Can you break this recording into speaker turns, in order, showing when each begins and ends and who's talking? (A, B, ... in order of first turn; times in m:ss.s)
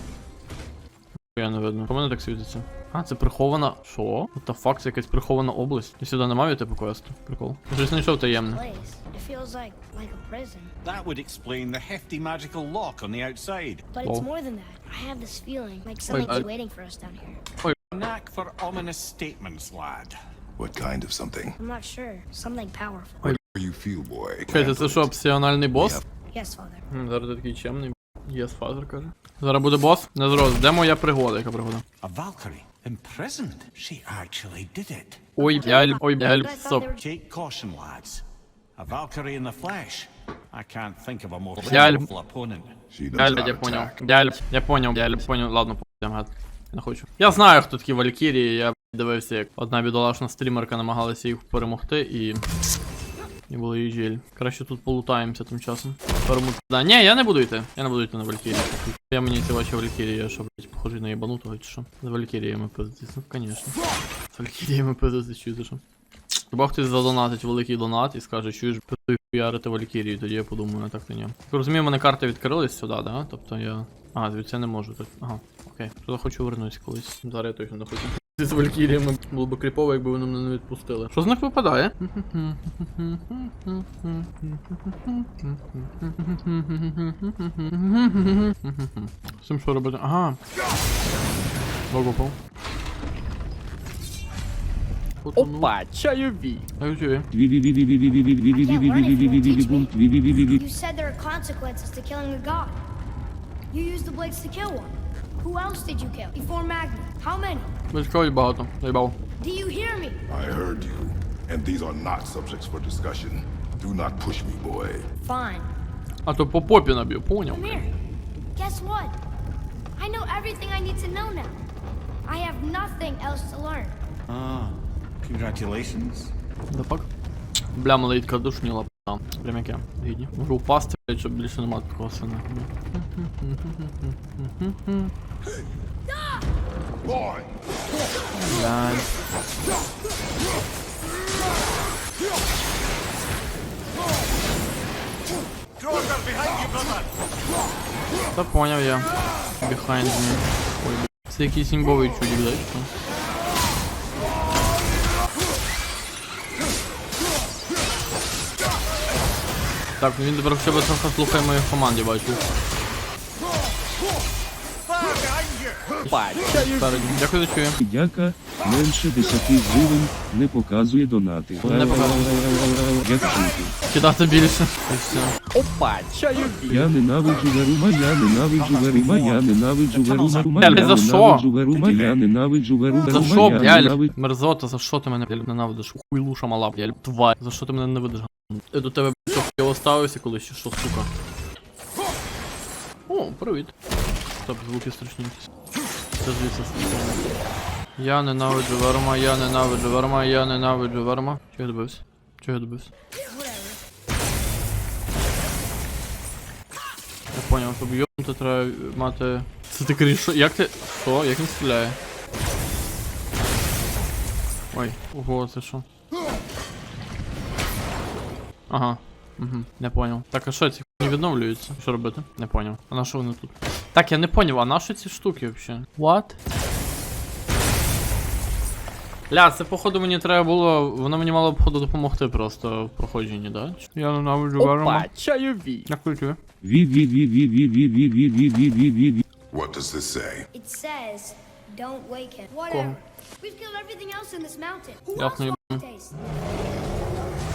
0:01.3-0:08.6 A
0:08.3-0:10.7 B
0:10.8-0:13.8 C
0:13.9-0:17.4 B
0:16.1-0:16.5 A
0:17.9-0:20.1 C
0:20.6-0:21.6 D
0:21.6-0:23.2 B
0:23.2-0:25.1 D
0:24.5-0:26.0 A
0:25.8-0:26.0 D
0:26.3-0:26.8 B
0:26.9-0:31.8 A
0:32.0-0:35.3 C
0:35.4-0:36.9 A
0:35.4-0:37.0 B
0:37.0-0:38.2 C
0:38.8-0:42.8 C
0:41.6-0:42.1 A
0:42.9-0:44.2 D
0:43.2-0:52.4 A
0:53.5-1:03.7 A
1:04.3-1:05.8 A
1:06.5-1:30.4 A
1:31.9-1:32.4 A
1:35.2-1:35.7 A
1:35.4-1:36.7 E
1:36.8-1:37.3 A
1:37.3-1:40.6 F
1:38.5-1:42.8 B
1:43.7-1:47.7 B
1:47.9-1:49.2 A
1:49.4-1:50.2 B
1:50.3-1:55.1 D
1:55.2-1:55.7 B
1:56.3-1:57.9 A
1:57.5-1:57.9 B
1:58.6-1:59.2 B
2:00.0-2:01.6 B
2:02.3-2:04.0 B
2:04.3-2:06.3 C
2:06.7-2:07.1 A
2:07.7-2:15.1 A
2:17.0-2:17.5 D
2:18.4-2:19.1 A
2:25.8-2:27.0 C
2:28.4-2:29.1 A
2:29.6-2:32.9 A
2:40.0-2:42.4 A
2:45.0-2:45.7 C
2:46.1-2:47.8 A
2:46.1-2:47.2 E
2:47.8-2:53.8 F
2:51.6-2:52.3 A
2:53.9-2:55.4 A
2:55.5-2:56.9 E
2:56.7-3:04.1 F
2:58.5-3:01.1 C
3:00.6-3:01.5 A
3:01.7-3:02.2 C
3:03.1-3:11.1 A
3:13.1-3:13.7 A
3:14.4-3:15.4 A
3:16.2-3:17.2 A
3:18.0-3:22.9 A
3:23.3-3:23.8 B
3:27.3-3:32.0 A
3:34.7-3:35.8 A
3:38.7-3:46.4 A
3:49.3-3:55.1 A
3:54.0-3:55.9 E
3:55.9-3:56.4 A
3:56.6-3:59.2 F
3:59.5-4:00.5 D
4:00.5-4:06.2 B
4:02.7-4:03.0 A
4:05.2-4:05.8 A